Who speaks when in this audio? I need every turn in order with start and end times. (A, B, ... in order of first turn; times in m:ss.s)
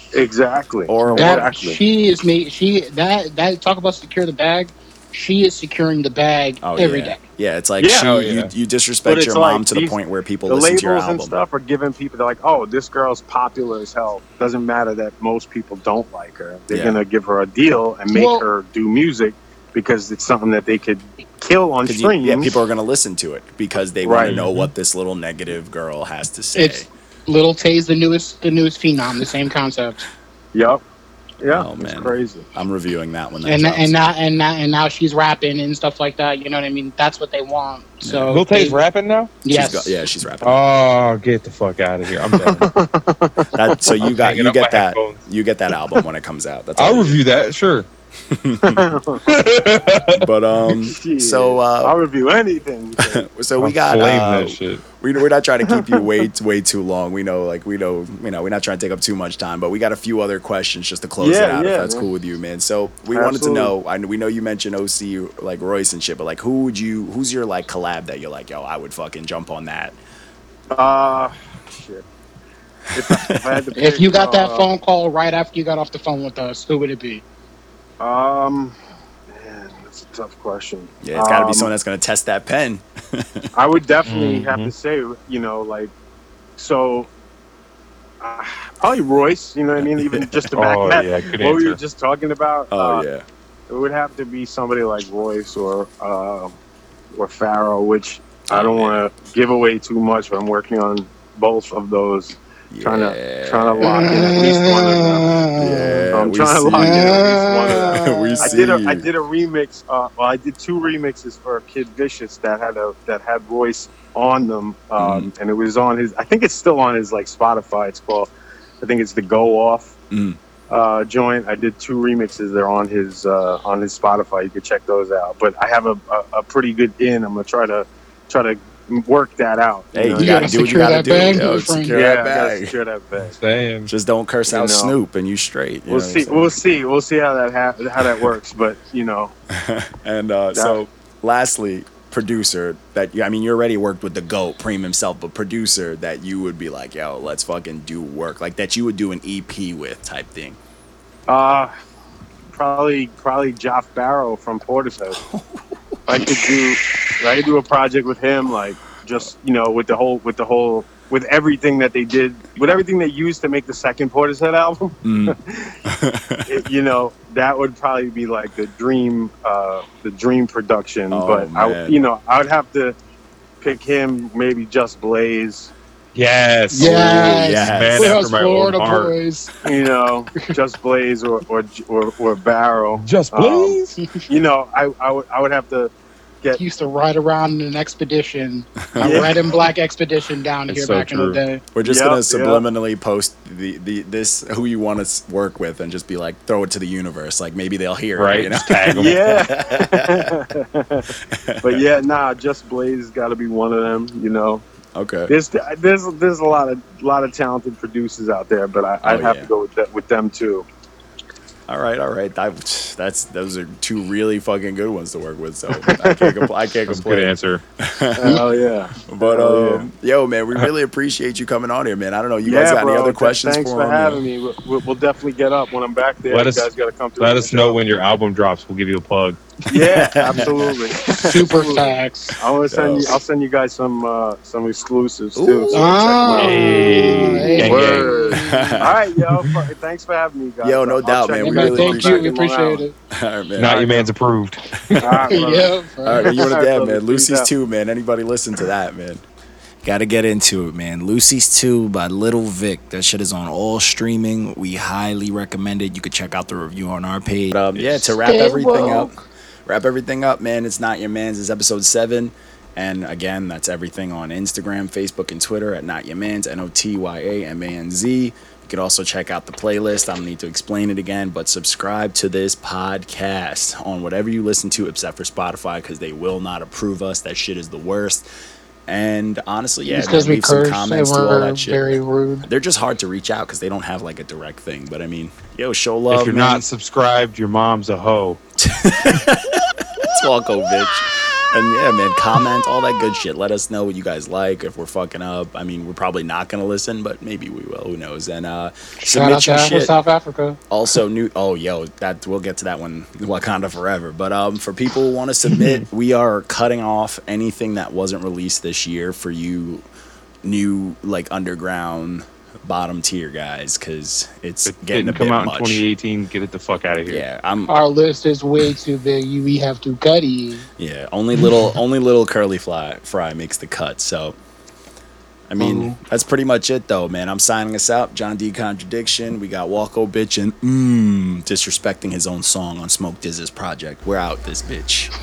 0:00.1-0:01.8 A
0:00.9-0:01.6 B
0:01.1-0:07.2 C
0:06.6-0:11.3 B
0:07.8-0:08.1 A
0:08.0-0:08.5 D
0:09.0-0:09.9 A
0:10.4-0:22.5 A
0:16.7-0:17.0 B
0:18.1-0:18.4 C
0:21.8-0:26.9 B
0:24.0-0:24.4 A
0:24.2-0:24.6 D
0:26.5-0:30.1 C
0:30.5-0:30.8 A
0:31.4-0:32.5 A
0:31.4-0:34.1 B
0:33.4-0:38.8 C
0:38.0-0:38.4 B
0:38.3-0:39.4 D
0:39.4-0:40.0 C
0:39.5-0:40.6 B
0:40.4-0:42.7 D
0:42.3-0:42.6 B
0:42.4-0:43.9 A
0:43.5-0:47.2 B
0:44.0-0:45.2 D
0:46.8-0:47.9 D
0:48.3-0:48.8 B
0:48.6-0:49.3 A
0:49.2-0:50.3 D
0:50.1-0:52.0 B
0:50.8-0:53.2 A
0:53.0-1:10.0 B
0:53.6-0:54.8 D
0:55.7-0:56.1 A
1:01.2-1:02.1 A
1:03.1-1:03.7 A
1:10.7-1:12.0 A
1:12.9-1:14.7 A
1:12.9-1:13.6 B
1:13.7-1:17.2 C
1:18.0-1:18.8 A
1:19.3-1:21.7 A
1:21.0-1:23.5 B
1:23.5-1:25.9 A
1:24.0-1:24.7 D
1:26.6-1:27.1 A
1:28.2-1:33.1 A
1:29.8-1:31.0 B
1:30.5-1:31.8 D
1:32.7-1:33.2 B
1:33.7-1:36.5 A
1:37.1-1:45.5 A
1:38.5-1:39.0 B
1:42.7-1:44.1 B
1:43.8-1:46.1 C
1:45.6-1:49.1 B
1:46.1-2:00.0 A
1:46.7-1:48.7 C
1:55.0-1:55.3 B
2:00.1-2:00.4 B
2:00.7-2:10.7 A
2:09.9-2:12.7 B
2:10.1-2:12.0 C
2:11.9-2:13.4 A
2:13.4-2:13.9 D
2:13.9-2:16.6 B
2:14.5-2:14.9 A
2:15.9-2:19.3 A
2:19.5-2:30.6 B
2:20.5-2:20.8 A
2:31.3-2:31.7 A
2:32.5-2:35.2 A
2:35.1-2:36.3 B
2:36.1-2:45.8 A
2:45.0-2:46.6 B
2:46.5-2:53.0 A
2:51.1-2:52.0 B
2:53.6-2:55.7 A
2:56.1-2:59.1 D
2:56.7-2:59.5 C
2:56.8-2:58.2 B
2:59.6-3:06.6 A
3:03.0-3:04.0 D
3:06.6-3:11.6 C
3:09.0-3:09.4 D
3:09.0-3:09.4 A
3:10.7-3:11.4 D
3:11.7-3:20.4 B
3:11.8-3:12.6 A
3:18.2-3:19.2 D
3:19.0-3:21.1 A
3:21.2-3:21.9 B
3:21.6-3:24.6 A
3:24.9-3:25.4 B
3:25.3-3:30.7 A
3:29.0-3:29.5 B
3:31.7-3:38.4 B
3:35.8-3:36.5 A
3:36.9-3:37.6 D
3:38.2-3:39.9 A
3:39.0-3:44.2 B
3:42.4-3:47.8 A
3:46.3-3:49.5 D
3:49.7-4:02.8 A
3:49.8-3:50.9 B
3:51.1-3:52.4 C
3:52.7-3:53.2 B
3:55.3-3:55.8 B
3:55.7-3:58.8 C
3:56.3-3:58.4 D
3:57.6-3:59.0 B
4:00.6-4:02.3 B
4:01.4-4:02.9 C
4:03.1-4:04.0 B
4:03.6-4:05.3 D
4:03.7-4:04.0 A
4:05.0-4:07.5 A
4:05.3-4:06.5 C
4:06.0-4:09.2 B
4:09.8-4:19.1 B
4:17.8-4:19.2 C
4:19.6-4:38.2 B
4:38.9-4:46.6 B
4:39.9-4:42.5 C
4:46.1-4:48.4 D
4:48.6-4:59.9 B
4:59.0-5:00.6 C
5:00.7-5:09.8 B
5:10.4-5:15.8 B
5:14.6-5:17.2 D
5:17.1-5:17.8 B
5:17.7-5:20.6 C
5:20.8-5:24.4 B
5:25.5-5:35.1 B
5:25.6-5:26.0 C